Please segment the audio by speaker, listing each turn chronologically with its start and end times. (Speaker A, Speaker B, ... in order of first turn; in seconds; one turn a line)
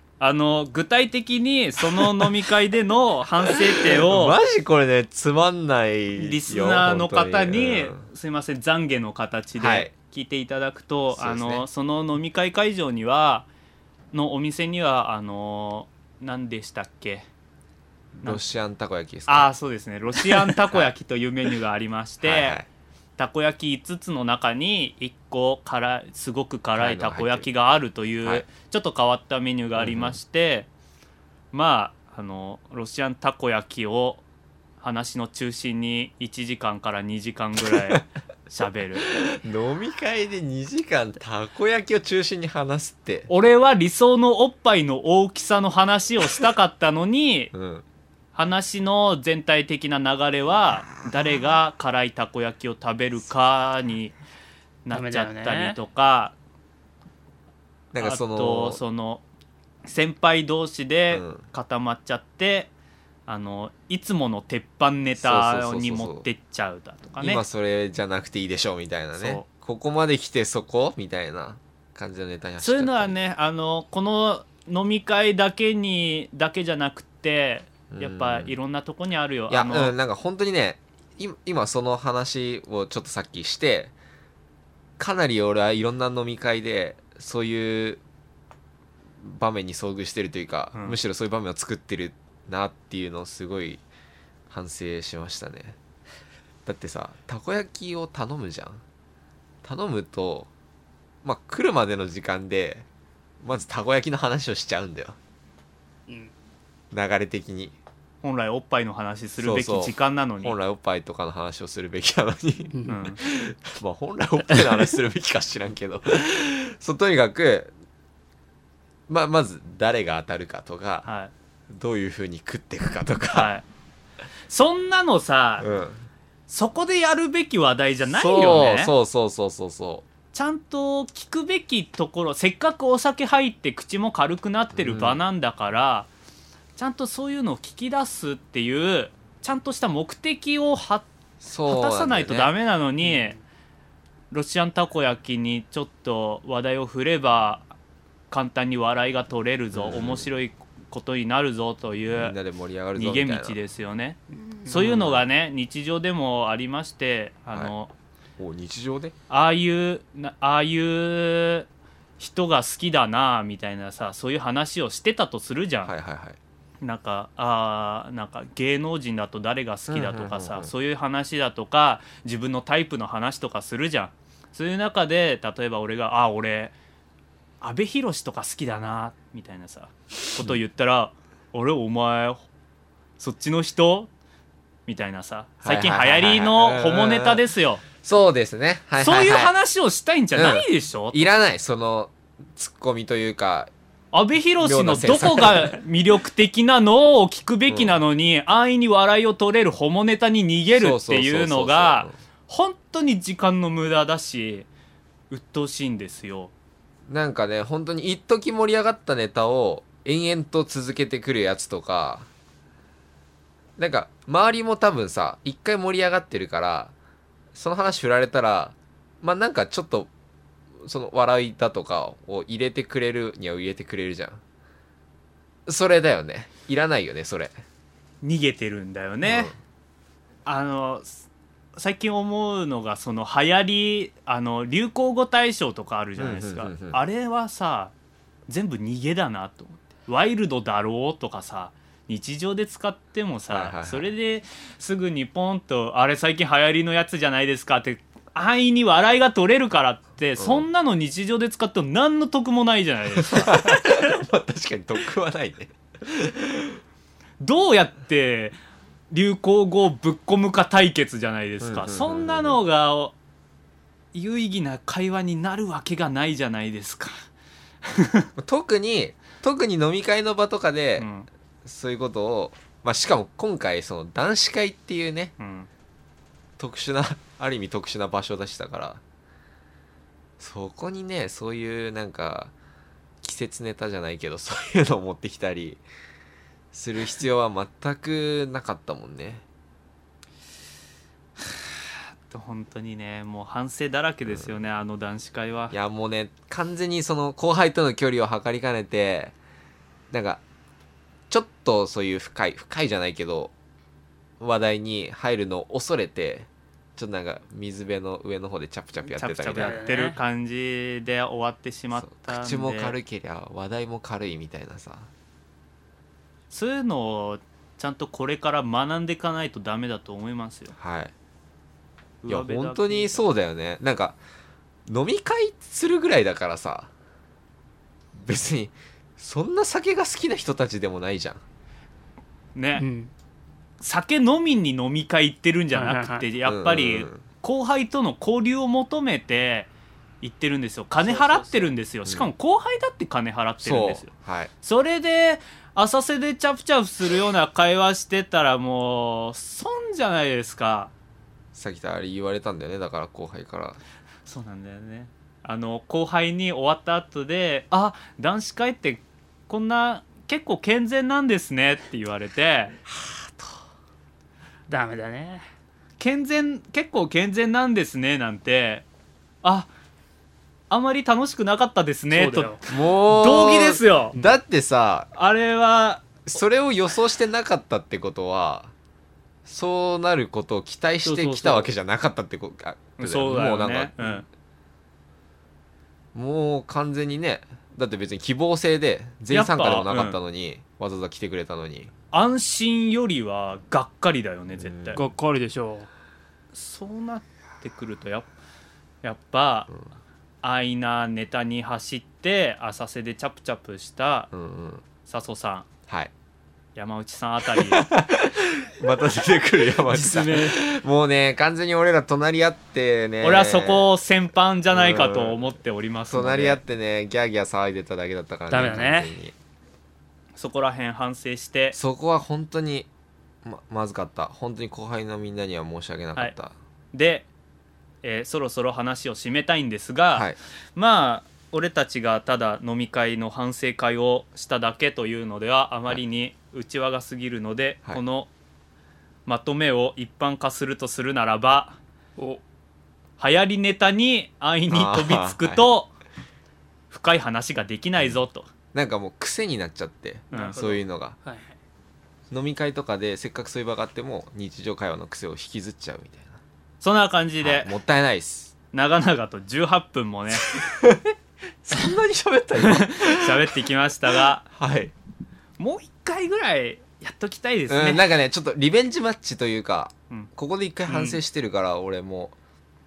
Speaker A: 0.2-4.4
Speaker B: 1.8-2.3
Speaker B: 3.5-8.0
Speaker A: 6.2-13.5
Speaker B: 9.6-9.9
Speaker B: 11.1-11.7
Speaker A: 14.1-17.2
Speaker B: 18.2-19.5
Speaker A: 19.3-22.6
Speaker B: 20.2-20.9
Speaker B: 22.2-22.7
Speaker A: 23.2-30.7
Speaker B: 26.8-27.5
Speaker B: 29.8-30.2
Speaker A: 31.5-34.2
Speaker A: 34.8-39.1
Speaker B: 37.6-38.0
Speaker B: 39.0-43.3
Speaker A: 43.3-47.5
Speaker B: 47.5-47.8
Speaker A: 48.4-54.1
Speaker A: 54.9-56.3
Speaker C: 54.9-55.8
Speaker B: 57.9-58.8
Speaker A: 57.9-59.2
Speaker A: 59.9-62.7
Speaker B: 61.1-61.4
Speaker A: 63.3-67.4
Speaker B: 65.2-66.3
Speaker B: 67.2-73.2
Speaker A: 69.2-69.5
Speaker A: 72.6-79.9
Speaker B: 77.9-78.5
Speaker B: 79.5-83.9
Speaker B: 85.0-88.0
Speaker B: 89.2-93.8
Speaker B: 94.5-95.8
Speaker B: 96.7-98.8
Speaker B: 99.6-100.5
Speaker B: 101.2-102.9
Speaker B: 103.4-105.2
Speaker B: 106.9-107.7
Speaker A: 108.2-110.6
Speaker B: 109.4-117.7
Speaker A: 112.9-113.2
Speaker B: 119.1-121.1
Speaker A: 121.0-121.3
Speaker B: 121.7-123.5
Speaker A: 123.3-123.7
Speaker A: 124.5-125.7
Speaker B: 125.6-126.1
Speaker A: 126.5-128.9
Speaker B: 128.1-130.1
Speaker A: 130.3-136.1
Speaker B: 134.8-135.2
Speaker A: 136.8-141.1
Speaker B: 141.4-142.5
Speaker A: 141.6-143.4
Speaker A: 144.3-147.7
Speaker A: 148.3-152.4
Speaker B: 149.7-150.3
Speaker B: 152.1-153.6
Speaker A: 152.9-157.9
Speaker C: 154.4-154.9
Speaker B: 154.8-155.3
Speaker B: 158.4-159.1
Speaker A: 159.3-161.7
Speaker A: 162.2-165.9
Speaker B: 165.8-166.4
Speaker A: 166.8-176.7
Speaker B: 169.9-170.7
Speaker A: 177.6-182.5
Speaker A: 183.2-184.1
Speaker A: 184.9-187.8
Speaker B: 185.6-189.5
Speaker A: 189.0-191.3
Speaker B: 190.3-193.7
Speaker A: 194.1-204.7
Speaker B: 194.6-195.8
Speaker B: 197.7-198.0
Speaker B: 200.7-202.1
Speaker A: 205.3-206.5
Speaker B: 207.1-212.3
Speaker B: 213.8-216.9
Speaker B: 217.5-220.1
Speaker B: 220.8-224.4
Speaker B: 225.7-227.5
Speaker A: 228.2-229.5
Speaker B: 229.2-229.6
Speaker A: 230.5-231.2
Speaker A: 231.8-237.9
Speaker B: 236.2-237.0
Speaker A: 238.5-253.8
Speaker B: 243.5-244.1
Speaker B: 250.4-250.7
Speaker B: 253.2-256.8
Speaker A: 257.4-258.6
Speaker A: 259.1-263.1
Speaker B: 261.6-262.6
Speaker A: 264.1-267.3
Speaker A: 267.9-268.3
Speaker B: 268.4-271.1
Speaker A: 271.0-271.3
Speaker B: 271.6-275.3
Speaker A: 275.4-275.7
Speaker B: 276.6-279.0
Speaker B: 280.4-282.5
Speaker B: 283.2-285.8
Speaker B: 286.7-289.4
Speaker A: 291.4-295.8
Speaker B: 295.7-299.3
Speaker B: 300.1-300.4
Speaker B: 301.3-303.5
Speaker B: 304.4-309.9
Speaker A: 309.0-312.9
Speaker C: 309.5-310.2
Speaker B: 312.0-315.1
Speaker A: 316.5-320.7
Speaker B: 320.8-321.1
Speaker A: 322.2-323.2
Speaker B: 322.3-324.2
Speaker B: 324.9-326.9
Speaker B: 328.2-331.4
Speaker A: 332.6-332.9
Speaker C: 332.8-333.1
Speaker A: 333.8-339.7
Speaker C: 335.7-336.3
Speaker B: 336.4-337.2
Speaker A: 340.2-344.1
Speaker C: 341.0-341.7
Speaker B: 342.1-342.3
Speaker B: 343.6-344.5
Speaker A: 344.6-350.9
Speaker B: 351.5-353.8
Speaker A: 354.3-362.8
Speaker B: 362.9-363.6
Speaker C: 364.7-365.4
Speaker A: 366.0-368.9
Speaker A: 369.4-369.7
Speaker A: 370.7-374.2
Speaker C: 372.1-372.6
Speaker B: 372.7-375.1
Speaker A: 375.1-376.1
Speaker B: 376.3-378.7
Speaker B: 379.4-384.0
Speaker C: 381.0-381.6
Speaker A: 383.0-384.3
Speaker B: 386.1-391.9
Speaker A: 389.3-390.2
Speaker A: 392.1-395.0
Speaker B: 394.6-395.0
Speaker C: 395.0-395.9
Speaker A: 396.5-398.3
Speaker A: 399.0-399.7
Speaker A: 400.4-404.3
Speaker B: 404.3-404.8
Speaker A: 405.1-405.7
Speaker A: 406.8-407.9
Speaker B: 407.5-413.9
Speaker C: 409.8-410.6
Speaker A: 413.2-416.6
Speaker B: 414.7-415.4
Speaker B: 416.1-419.3
Speaker C: 418.5-419.1
Speaker A: 420.4-421.8
Speaker B: 421.7-422.9
Speaker B: 423.4-426.5
Speaker A: 426.9-427.3
Speaker A: 428.0-438.3
Speaker A: 439.3-441.8
Speaker A: 443.2-445.9
Speaker B: 444.7-445.7
Speaker A: 446.9-448.5
Speaker B: 448.7-451.2
Speaker C: 450.3-451.4
Speaker A: 450.3-450.6
Speaker B: 452.3-456.4
Speaker A: 456.8-457.7
Speaker B: 457.4-458.5
Speaker A: 458.7-460.5
Speaker B: 460.5-463.6
Speaker A: 462.6-464.5
Speaker B: 464.1-464.9
Speaker A: 465.6-468.1
Speaker B: 467.7-472.4
Speaker C: 470.9-471.2